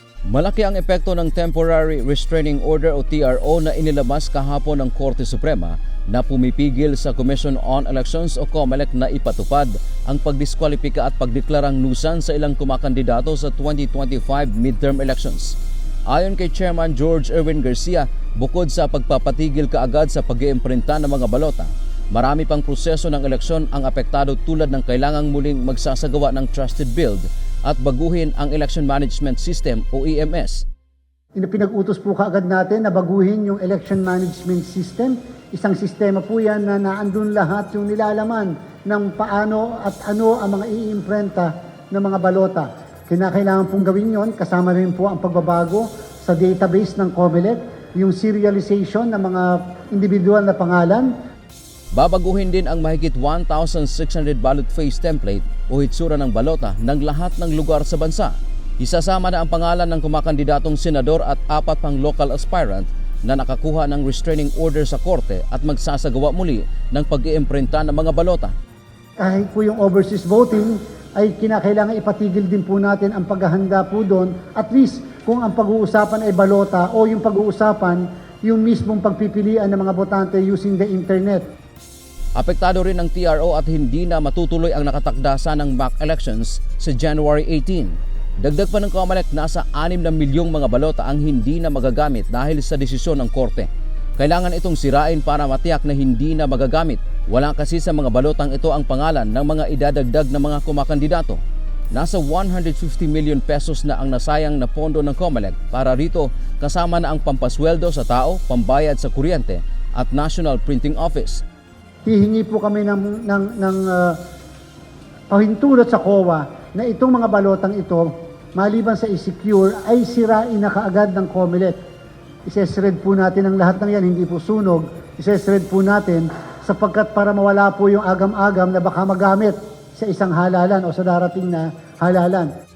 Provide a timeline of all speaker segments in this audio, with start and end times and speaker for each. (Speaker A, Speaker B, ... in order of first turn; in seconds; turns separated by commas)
Speaker A: 0.3-15.6, Speaker A: 16.1-30.6, Speaker B: 31.4-51.1, Speaker A: 51.9-68.5, Speaker B: 69.2-81.4, Speaker A: 82.4-101.4, Speaker A: 101.9-111.4, Speaker B: 112.0-114.2, Speaker B: 115.3-121.8, Speaker B: 122.5-132.5